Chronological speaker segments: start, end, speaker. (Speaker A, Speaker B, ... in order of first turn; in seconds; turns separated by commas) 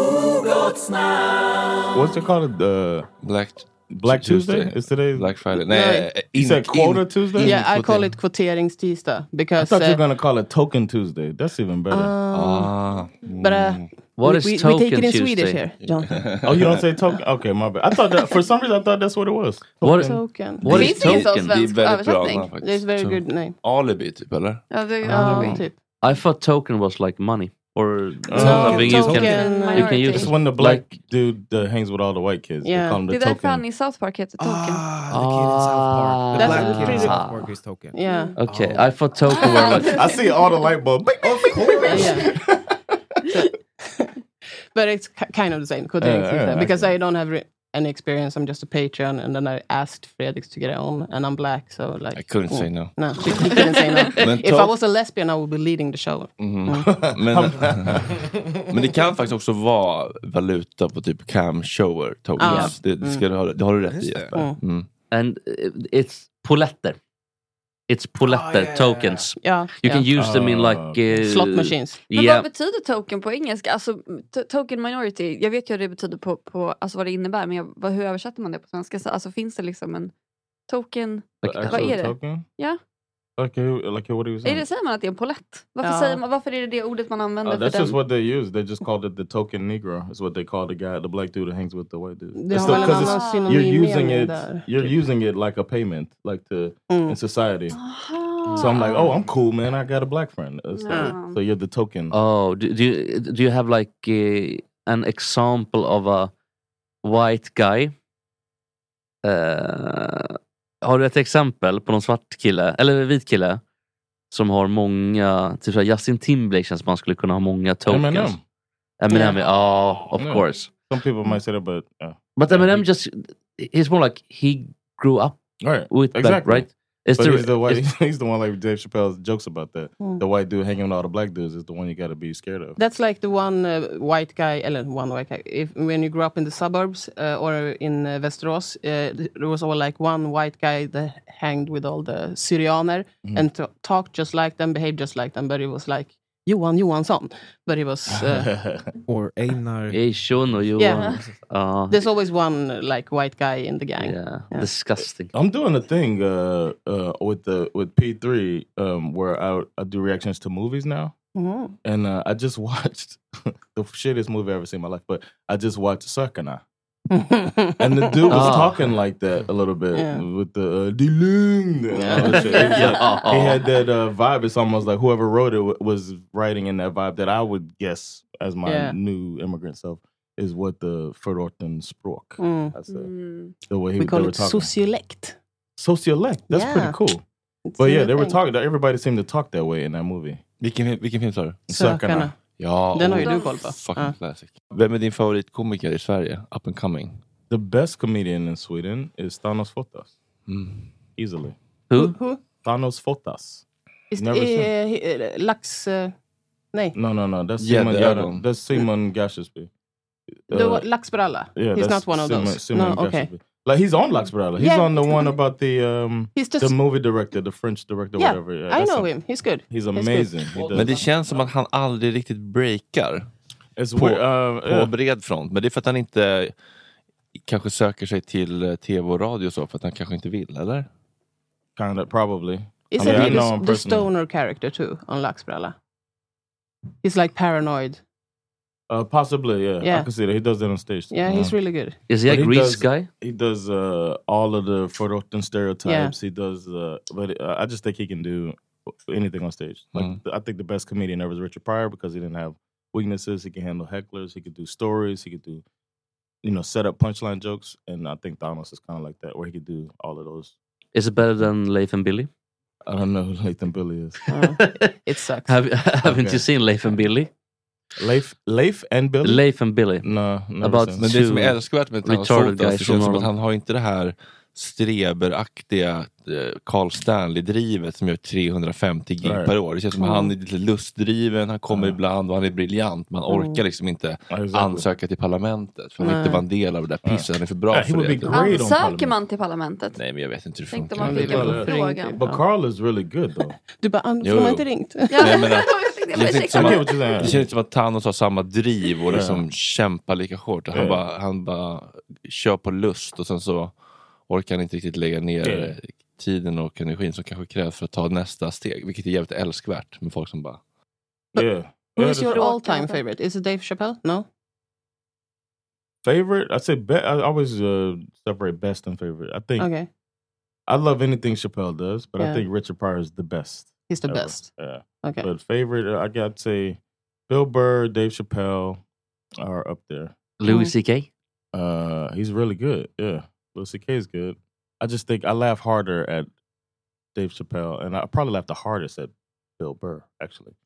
Speaker A: 1.9-3.1, Speaker B: 3.2-8.0, Speaker A: 3.9-5.3, Speaker C: 5.6-6.1, Speaker A: 6.3-7.6, Speaker C: 7.4-10.0, Speaker A: 9.6-12.1, Speaker C: 11.9-12.7, Speaker B: 12.3-13.8, Speaker C: 13.3-16.3, Speaker D: 14.2-15.6, Speaker B: 15.8-16.8, Speaker A: 16.4-20.2, Speaker D: 19.8-21.6, Speaker C: 19.9-20.8, Speaker E: 20.6-22.5, Speaker B: 20.7-24.6, Speaker C: 22.6-23.6, Speaker E: 24.7-25.6, Speaker C: 25.1-25.8, Speaker D: 25.1-30.9, Speaker A: 28.3-29.0, Speaker C: 28.4-30.0, Speaker E: 28.5-30.3, Speaker A: 30.1-33.6, Speaker C: 32.6-33.0, Speaker E: 33.1-34.8, Speaker F: 34.4-39.1, Speaker D: 35.1-37.5, Speaker C: 36.4-37.2, Speaker C: 37.9-38.4, Speaker E: 38.1-38.3, Speaker D: 38.4-40.0, Speaker E: 39.4-40.1, Speaker A: 39.8-43.2, Speaker F: 41.6-42.1, Speaker E: 41.8-42.1, Speaker C: 41.9-42.3, Speaker C: 43.3-44.1, Speaker C: 44.7-56.9, Speaker A: 46.0-46.9, Speaker B: 52.1-53.3, Speaker E: 53.4-54.0, Speaker B: 54.0-54.8, Speaker B: 56.4-58.1, Speaker A: 56.9-58.3, Speaker B: 58.7-64.9, Speaker C: 62.4-63.2, Speaker D: 62.4-62.7, Speaker F: 63.9-64.4, Speaker D: 65.1-67.0, Speaker D: 67.9-72.5, Speaker F: 68.2-69.3, Speaker C: 69.4-70.1, Speaker A: 70.1-71.0, Speaker C: 71.2-72.0, Speaker E: 72.1-80.1, Speaker E: 80.7-82.8, Speaker D: 81.4-82.0, Speaker A: 81.4-82.5, Speaker A: 83.4-84.6, Speaker E: 84.4-88.0, Speaker C: 85.8-86.2, Speaker A: 87.4-97.8, Speaker C: 92.3-94.7, Speaker E: 92.5-93.8, Speaker C: 96.9-97.2, Speaker E: 97.7-99.1, Speaker A: 98.6-102.1, Speaker E: 100.8-101.4, Speaker C: 100.9-101.1, Speaker D: 102.1-106.3, Speaker D: 107.0-107.9, Speaker D: 109.2-113.6, Speaker D: 114.3-118.4, Speaker A: 117.9-118.4, Speaker D: 119.0-120.7, Speaker C: 119.1-119.4, Speaker A: 120.1-122.8, Speaker D: 122.4-125.4, Speaker A: 125.6-132.8, Speaker D: 125.9-127.9, Speaker C: 132.8-148.5, Speaker A: 148.1-148.9, Speaker F: 149.1-151.3, Speaker D: 149.9-152.1, Speaker C: 150.8-151.1, Speaker C: 151.9-154.7, Speaker D: 154.0-155.3, Speaker A: 155.3-161.1, Speaker C: 161.3-161.8, Speaker A: 161.8-166.6, Speaker C: 167.1-168.6, Speaker A: 167.8-183.1, Speaker D: 168.3-168.8, Speaker C: 169.9-170.2, Speaker C: 171.9-172.8, Speaker D: 172.2-173.7, Speaker C: 178.6-178.9, Speaker C: 182.4-182.8, Speaker E: 182.9-183.6, Speaker A: 183.7-184.7, Speaker C: 184.0-185.4, Speaker A: 185.8-187.2, Speaker C: 186.5-187.0, Speaker C: 187.6-188.4, Speaker A: 187.8-190.4, Speaker B: 190.6-191.6, Speaker A: 191.7-192.3, Speaker C: 191.7-192.3, Speaker B: 192.6-197.2, Speaker C: 192.9-194.2, Speaker E: 193.0-193.7, Speaker A: 197.5-200.1, Speaker B: 200.5-200.9, Speaker A: 201.2-201.6, Speaker D: 201.9-202.2, Speaker C: 201.9-202.4, Speaker A: 202.6-203.6, Speaker C: 204.1-206.1, Speaker A: 204.2-204.7, Speaker A: 206.9-209.7, Speaker B: 207.6-208.4, Speaker A: 210.5-210.9, Speaker C: 210.5-213.3, Speaker A: 211.5-221.0, Speaker C: 214.6-215.3, Speaker C: 216.4-216.8, Speaker C: 218.2-220.4, Speaker B: 220.6-223.3, Speaker A: 223.8-224.9, Speaker B: 223.9-226.5, Speaker B: 227.4-230.9, Speaker A: 231.8-234.1, Speaker C: 232.9-235.8, Speaker B: 233.0-233.4, Speaker C: 237.0-238.0, Speaker A: 238.9-241.6, Speaker C: 239.8-240.1, Speaker C: 241.1-242.0, Speaker D: 242.1-243.1, Speaker A: 242.2-255.6, Speaker C: 245.8-246.1, Speaker B: 249.9-250.2, Speaker A: 256.4-260.6, Speaker D: 260.9-262.3, Speaker A: 262.9-264.2, Speaker C: 264.3-265.6, Speaker D: 264.4-264.9, Speaker D: 265.4-267.3, Speaker A: 266.0-266.4, Speaker A: 268.0-269.4, Speaker D: 269.2-270.1, Speaker A: 270.0-271.1, Speaker D: 270.6-273.3, Speaker B: 271.0-288.4, Speaker A: 279.2-279.5, Speaker C: 279.9-280.3, Speaker A: 281.7-282.0, Speaker C: 283.3-283.6, Speaker A: 284.3-284.9, Speaker C: 286.0-286.4, Speaker A: 287.1-289.1, Speaker E: 288.3-290.0, Speaker B: 289.9-291.6, Speaker E: 290.7-292.3, Speaker C: 291.0-292.4, Speaker A: 291.1-293.6, Speaker C: 293.8-295.4, Speaker B: 294.2-303.7, Speaker E: 295.1-297.4, Speaker A: 296.5-297.5, Speaker A: 299.1-299.4, Speaker A: 300.7-301.0, Speaker B: 304.3-310.6, Speaker A: 305.4-305.8, Speaker A: 311.3-312.4, Speaker C: 311.3-314.3, Speaker E: 312.3-313.0, Speaker A: 316.0-319.7, Speaker C: 319.6-319.9, Speaker A: 320.7-328.8, Speaker C: 322.2-322.4, Speaker C: 323.9-324.5, Speaker C: 325.0-325.3, Speaker A: 329.4-330.1, Speaker D: 330.4-331.1, Speaker C: 330.4-330.7, Speaker A: 331.5-336.3, Speaker A: 337.1-340.6